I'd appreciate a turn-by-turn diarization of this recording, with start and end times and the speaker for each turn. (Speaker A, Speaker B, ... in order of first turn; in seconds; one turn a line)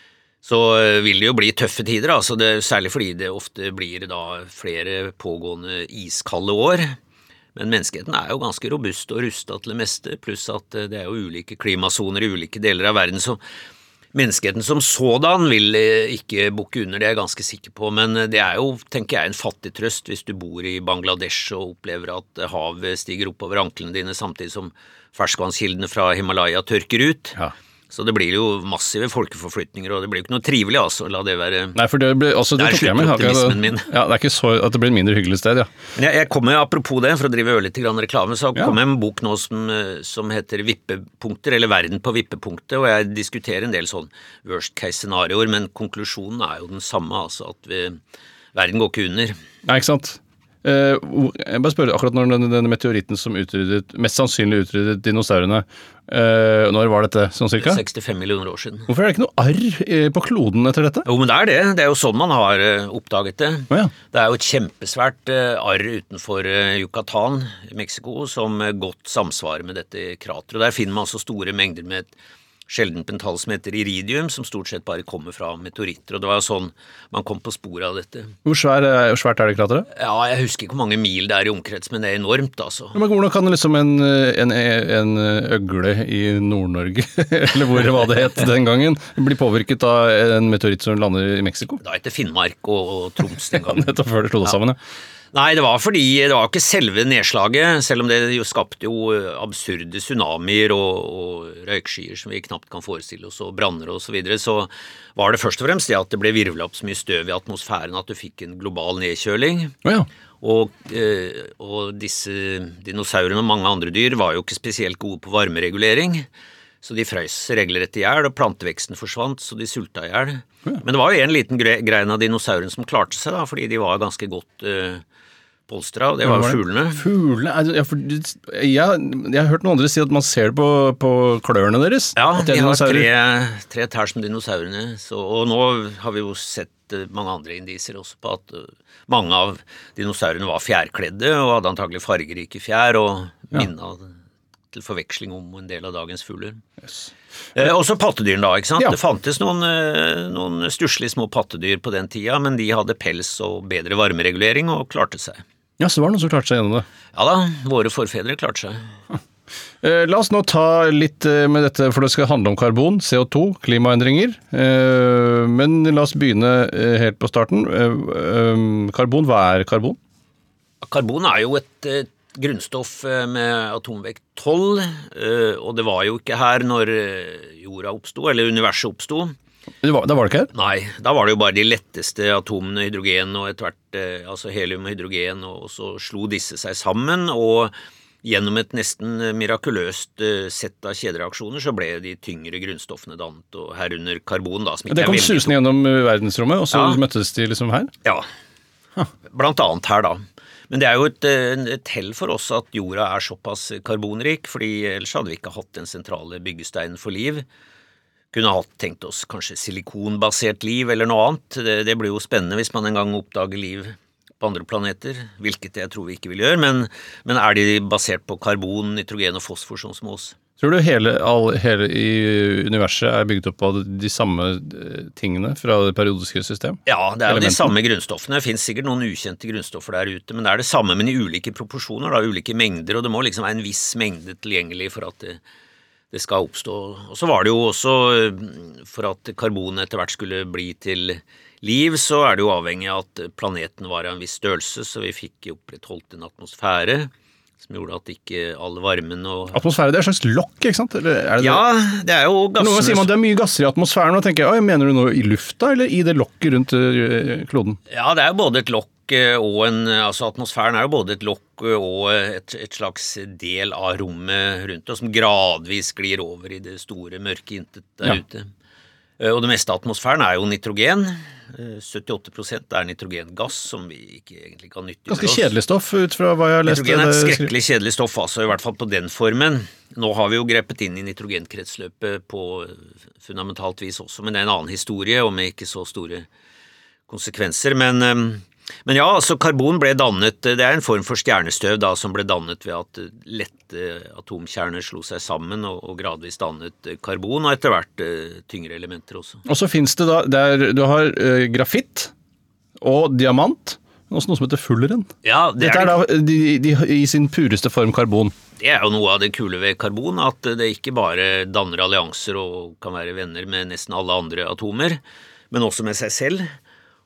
Speaker A: 0.4-7.0
Speaker A: 7.5-13.4
Speaker A: 14.1-27.4
Speaker A: 27.9-31.8
Speaker B: 31.7-35.7
Speaker A: 32.5-33.9
Speaker A: 35.9-48.0
Speaker A: 48.5-49.4
Speaker B: 49.6-57.8
Speaker A: 57.6-58.9
Speaker B: 58.9-61.0
Speaker A: 61.0-72.1
Speaker A: 72.7-78.3
Speaker B: 78.4-79.9
Speaker A: 79.9-83.0
Speaker B: 82.9-91.8
Speaker A: 91.8-93.9
Speaker B: 93.5-94.8
Speaker A: 95.3-109.8
Speaker A: 110.4-116.3
Speaker A: 116.8-125.0
Speaker A: 125.7-127.0
Speaker B: 126.2-133.1
Speaker A: 132.1-144.2
Speaker A: 144.7-146.6
Speaker A: 147.5-155.4
Speaker B: 155.8-156.8
Speaker A: 157.1-158.8
Speaker B: 159.8-170.0
Speaker A: 170.8-179.3
Speaker B: 179.8-180.5
Speaker A: 180.5-195.5
Speaker B: 194.9-197.9
Speaker A: 196.7-197.0
Speaker A: 199.3-207.4
Speaker A: 208.3-220.4
Speaker B: 220.6-227.7
Speaker A: 226.8-235.4
Speaker A: 236.1-249.6
Speaker B: 249.5-251.6
Speaker A: 251.4-253.1
Speaker B: 252.6-257.8
Speaker A: 257.9-268.5
Speaker A: 269.2-275.5
Speaker B: 275.1-277.5
Speaker A: 276.6-286.3
Speaker A: 287.1-299.4
Speaker B: 299.4-302.1
Speaker B: 302.8-308.3
Speaker A: 305.2-306.1
Speaker A: 308.6-316.5